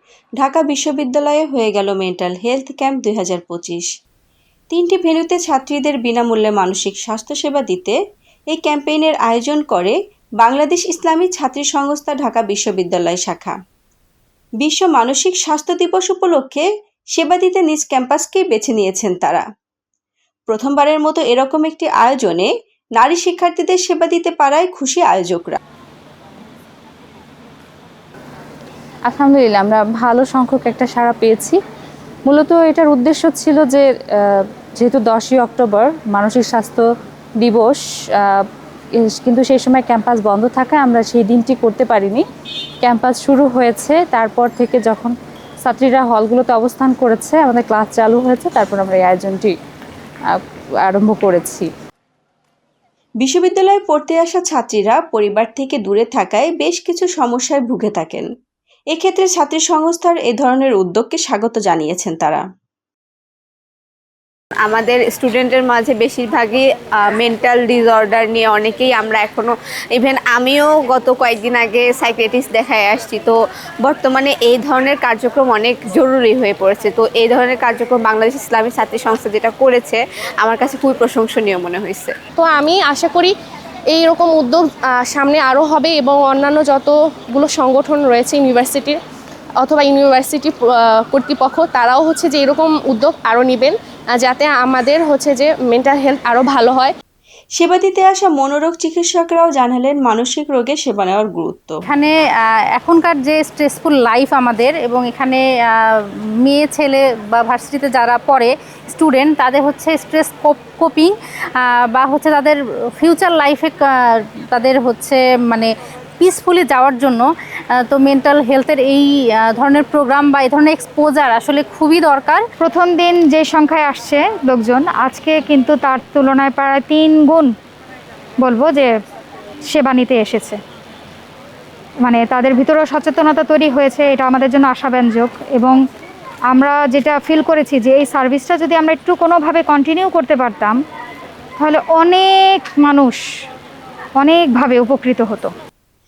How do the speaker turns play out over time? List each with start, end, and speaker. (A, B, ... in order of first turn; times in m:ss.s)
0:00.4-0:03.9 A
0:04.7-0:08.0 A
0:08.5-0:13.6 A
0:14.6-0:19.4 A
0:20.5-0:25.6 A
0:29.1-0:31.6 B
0:32.2-0:36.9 B
0:37.4-0:38.4 B
0:39.1-0:42.2 B
0:42.8-0:49.6 B
0:50.3-0:51.7 B
0:53.2-0:58.3 A
0:58.9-1:02.4 A
1:04.6-1:22.1 C
1:22.4-1:23.3 D
1:23.9-1:29.0 D
1:29.6-1:36.9 D
1:37.6-1:41.8 A
1:41.9-1:42.1 E
1:42.7-2:02.4 E
2:02.6-2:07.5 F
2:08.4-2:08.9 F
2:09.7-2:10.6 F
2:12.1-2:15.8 F
2:16.5-2:20.8 F
2:21.6-2:23.2 F
2:24.2-2:25.5 F